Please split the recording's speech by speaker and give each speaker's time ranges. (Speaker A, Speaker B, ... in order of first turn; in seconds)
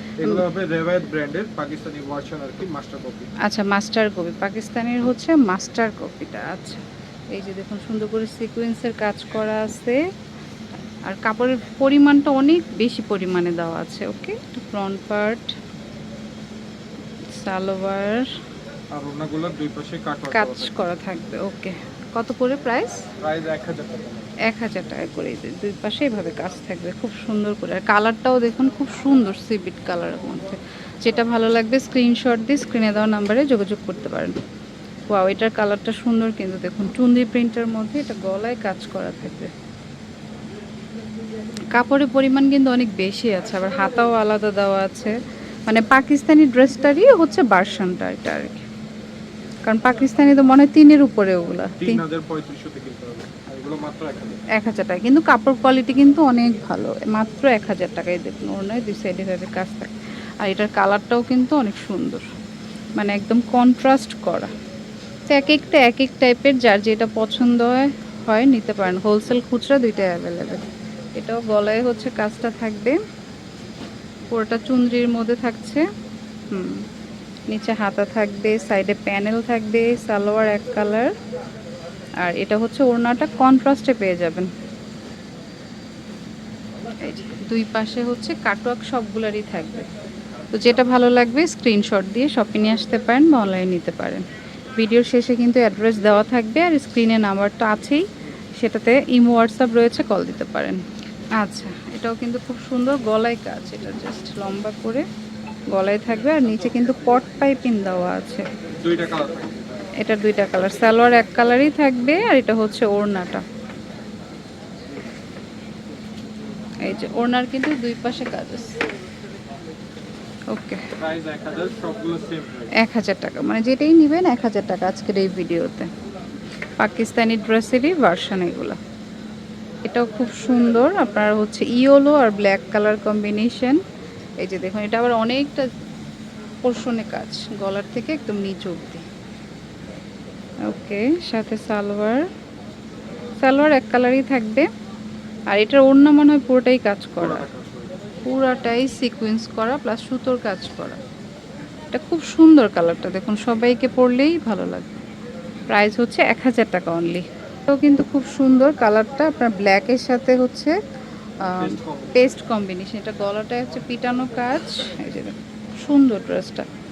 Speaker A: 0.2-3.3, 18.9-20.7, 23.2-24.3, 51.8-54.4, 108.8-109.8, 121.0-122.7, 147.2-148.0, 161.6-162.2
Speaker B: 3.4-10.0, 11.1-15.6, 17.3-18.3, 20.3-23.0, 24.4-34.4, 35.1-39.5, 41.8-48.7, 49.7-52.0, 54.5-62.3, 63.0-64.5, 65.3-73.0, 74.3-75.9, 76.5-76.8, 77.5-81.1, 82.2-84.5, 87.0-89.9, 90.5-98.0, 98.6-100.8, 101.4-105.1, 105.7-108.5, 110.0-113.5, 116.8-118.8, 120.5-120.9, 122.7-125.9, 126.8-128.8, 129.8-133.8, 134.4-135.7, 136.6-139.1, 140.7-142.2, 143.4-144.7, 145.5-147.5, 148.2-151.0, 151.9-155.0, 155.7-160.8, 161.4-166.7